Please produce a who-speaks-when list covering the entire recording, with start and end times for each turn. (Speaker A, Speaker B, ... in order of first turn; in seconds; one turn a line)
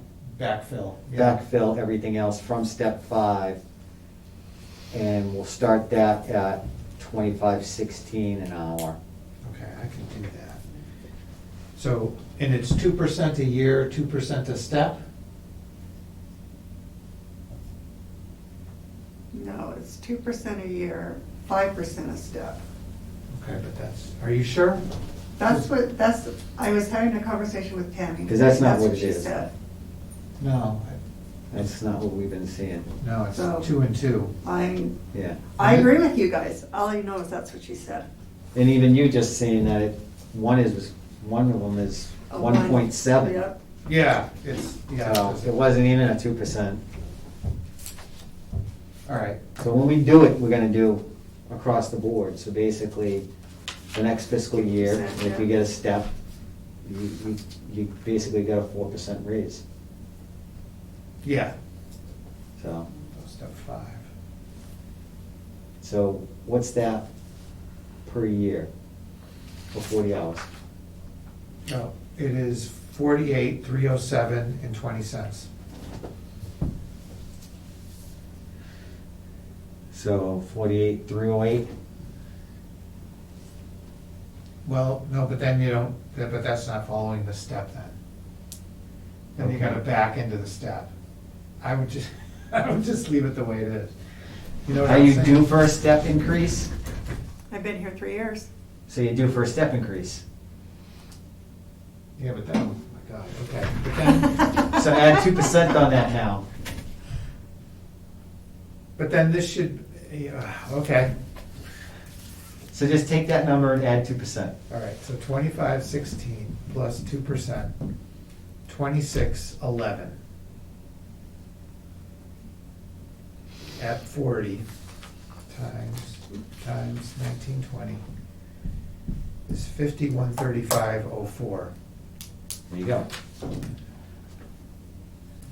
Speaker A: 0.2-1.4
Speaker B: 1.1-3.6
Speaker B: 4.9-9.0
Speaker A: 9.4-10.6
Speaker A: 11.8-15.0
Speaker C: 19.3-22.6
Speaker A: 23.3-24.8
Speaker C: 25.4-29.5
Speaker B: 28.3-29.3
Speaker A: 30.4-31.0
Speaker B: 31.5-32.9
Speaker A: 33.0-34.4
Speaker C: 33.3-33.7
Speaker C: 34.4-35.0
Speaker B: 35.1-35.5
Speaker C: 35.5-38.1
Speaker A: 35.6-35.9
Speaker B: 38.5-43.4
Speaker C: 42.3-43.6
Speaker A: 43.9-45.5
Speaker B: 45.0-46.8
Speaker A: 49.1-49.4
Speaker B: 49.6-53.2
Speaker B: 53.9-56.1
Speaker C: 54.8-55.5
Speaker B: 56.8-59.6
Speaker A: 61.2-61.5
Speaker B: 62.6-62.9
Speaker A: 63.1-64.1
Speaker B: 65.8-67.0
Speaker B: 68.0-68.7
Speaker B: 69.7-70.5
Speaker A: 71.7-75.5
Speaker B: 79.9-81.7
Speaker A: 84.7-88.0
Speaker A: 89.4-90.9
Speaker B: 89.4-89.8
Speaker A: 91.6-93.9
Speaker A: 94.7-95.5
Speaker B: 94.8-96.7
Speaker C: 97.5-98.5
Speaker B: 98.9-100.2
Speaker A: 102.2-104.5
Speaker B: 104.7-106.5
Speaker A: 109.0-111.1
Speaker B: 112.7-114.5
Speaker A: 114.7-117.7
Speaker A: 118.7-120.2
Speaker A: 123.8-124.7
Speaker A: 125.5-128.0
Speaker A: 129.5-131.7
Speaker B: 132.7-133.1